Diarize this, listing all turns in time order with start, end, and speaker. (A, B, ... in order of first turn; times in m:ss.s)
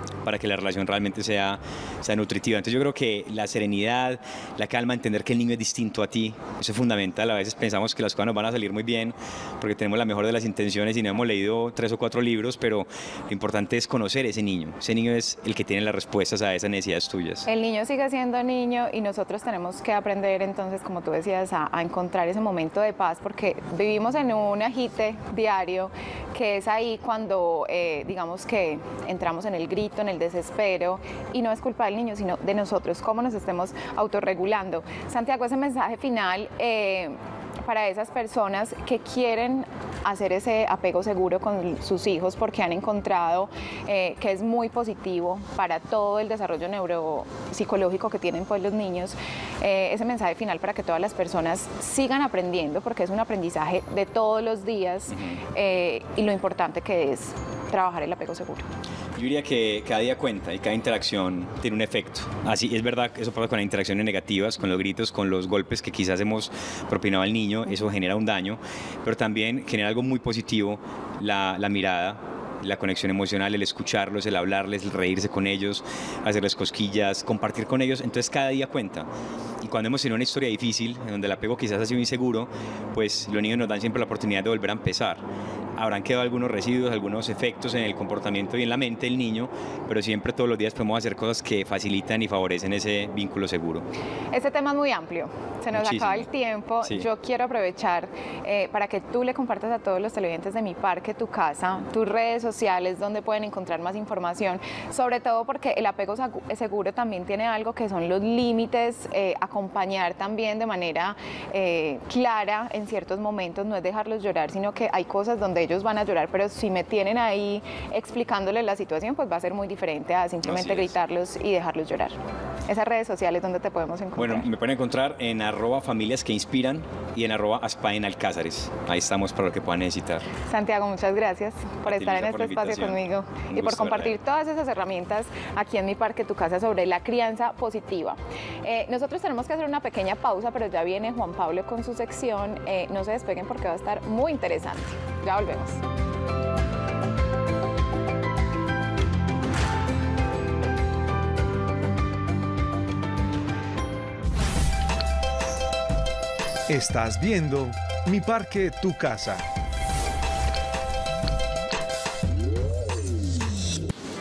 0:00.2-0:17.4 A
0:17.4-0:58.6 B
0:55.1-0:55.4 A
0:59.1-1:19.1 A
1:19.6-1:25.2 A
1:25.8-1:33.8 A
1:34.3-2:04.5 B
1:35.7-1:36.3 A
2:04.2-2:10.2 A
2:10.4-2:25.8 B
2:11.8-2:14.2 A
2:36.7-2:39.4 C